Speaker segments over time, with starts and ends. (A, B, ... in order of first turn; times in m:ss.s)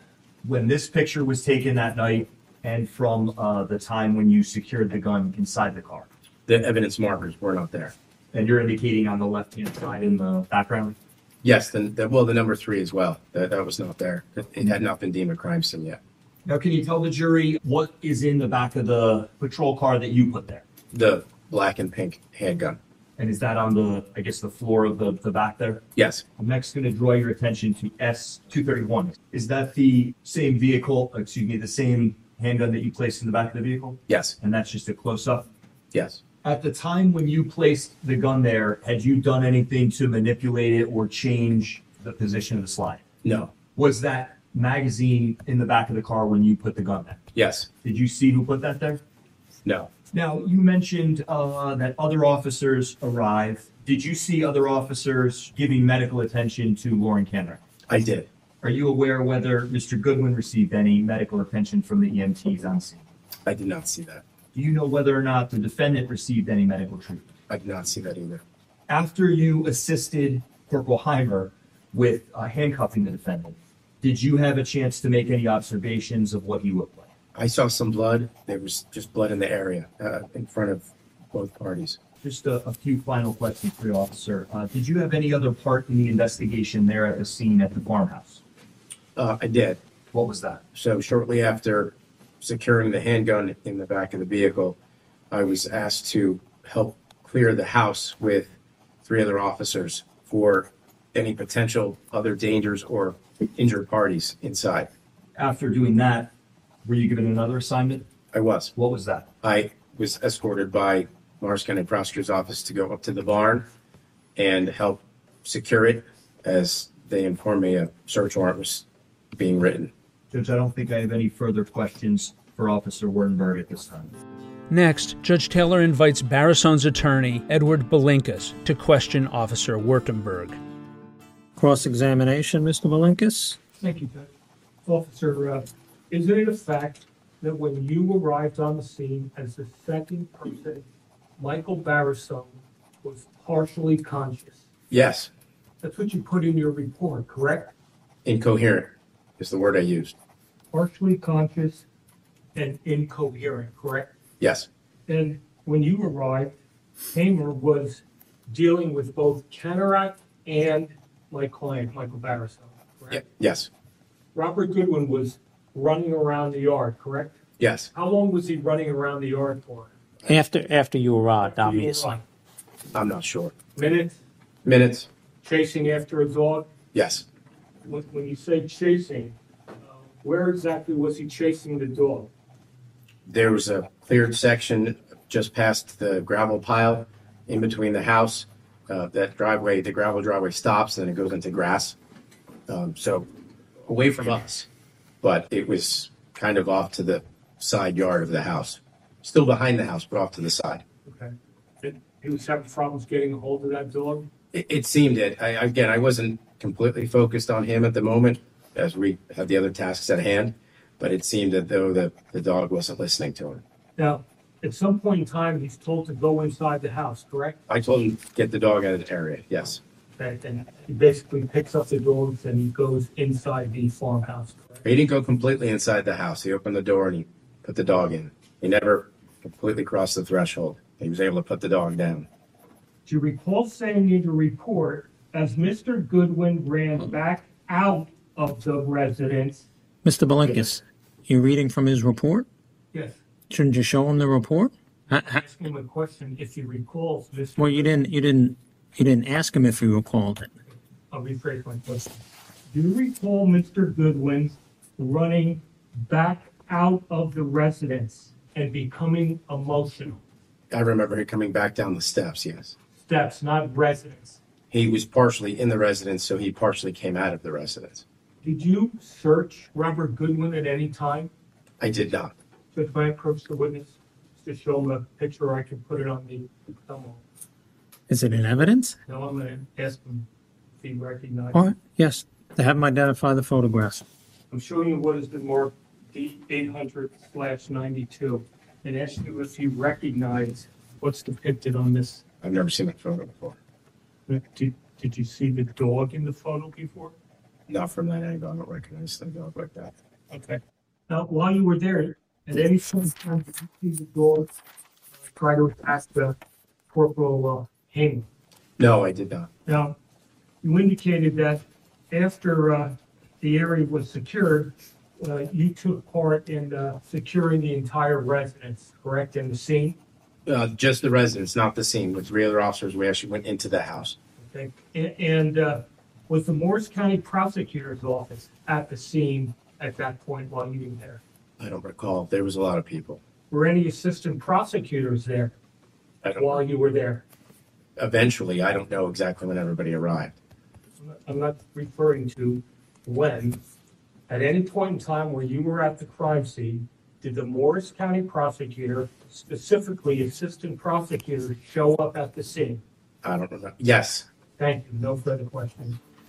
0:00.4-0:06.1 A
0:06.5-0:07.9 B
0:08.3-0:11.0 A
0:11.4-0:16.0 B
0:16.4-0:20.6 A
0:20.9-0:22.8 B
0:23.2-0:25.8 A
0:26.0-0:26.2 B
0:26.4-0:35.5 A
0:34.1-0:34.4 B
0:35.9-0:36.2 B
0:36.4-0:43.0 A
0:43.2-0:43.5 B
0:43.7-0:47.2 A
0:47.3-0:47.7 B
0:47.8-0:49.0 A
0:49.6-0:49.9 B
0:50.1-0:57.6 A
0:57.9-0:58.3 B
0:58.6-1:03.0 A
1:03.4-1:04.2 B
1:04.5-1:07.3 A
1:07.5-1:08.4 B
1:08.9-1:17.1 A
1:17.3-1:22.0 B
1:22.2-1:28.4 A
1:29.2-1:29.8 B
1:30.1-1:30.6 A
1:30.7-1:34.8 B
1:35.3-1:38.5 B
1:39.0-1:44.9 B
1:45.4-1:46.3 A
1:46.8-1:48.1 A
1:48.3-1:48.7 B
1:48.7-1:49.3 A
1:49.4-1:53.6 B
1:54.4-1:59.9 B
2:00.3-2:04.1 A
2:04.7-2:10.6 C
2:11.6-2:13.6 D
2:13.8-2:14.3 E
2:14.8-2:20.8 E
2:21.4-2:24.6 E
2:24.9-2:25.3 B
2:25.8-2:27.7 E
2:28.2-2:30.1 B
2:30.7-2:31.8 E
2:32.5-2:34.1 E
2:34.4-2:34.7 B
2:35.1-2:36.6 E
2:37.1-2:43.2 E
2:43.1-2:43.7 B
2:44.3-2:47.4 E
2:47.6-2:47.9 B
2:47.9-2:49.9 E
2:50.3-2:52.1 D
2:51.4-2:52.2 E
2:52.9-2:53.6 B
2:53.7-2:54.2 E
2:54.6-2:55.1 B
2:55.4-2:56.7 E
2:56.9-2:57.2 B
2:57.9-3:02.3 E
3:03.2-3:11.9 B
3:12.7-3:13.3 B
3:13.8-3:14.7 B
3:15.2-3:20.8 B
3:21.0-3:24.3 E
3:24.5-3:33.6 B
3:34.0-3:37.6 E
3:37.7-3:39.8 B
3:40.2-3:44.8 E
3:44.8-3:52.3 B
3:53.0-3:59.6 E
4:00.0-4:02.5 D
4:02.9-4:03.2 E
4:03.5-4:05.4 D
4:05.3-4:07.9 E
4:07.6-4:10.5 D
4:11.1-4:12.2 E
4:12.7-4:20.2 E
4:20.7-4:22.7 B
4:23.0-4:24.4 E
4:24.7-4:28.0 B
4:28.4-4:31.3 E
4:31.8-4:32.3 B
4:32.7-4:37.2 E
4:38.1-4:39.0 D
4:39.0-4:40.3 E
4:40.8-4:41.6 E
4:41.5-4:44.0 D
4:44.5-4:52.2 E
4:52.4-4:53.6 B
4:54.3-4:57.1 E
4:57.7-4:59.9 B
5:00.3-5:04.5 E
5:05.3-5:06.4 E
5:06.9-5:08.2 E
5:08.8-5:09.5 B
5:09.6-5:10.0 E
5:10.6-5:20.0 E
5:20.4-5:24.2 B
5:24.4-5:31.2 E
5:31.6-5:33.2 B
5:33.5-5:35.5 E
5:36.2-5:36.6 B
5:36.3-5:37.2 E
5:38.0-5:40.3 B
5:41.0-5:43.6 E
5:44.3-5:52.8 E
5:53.2-5:54.3 B
5:54.6-5:56.0 E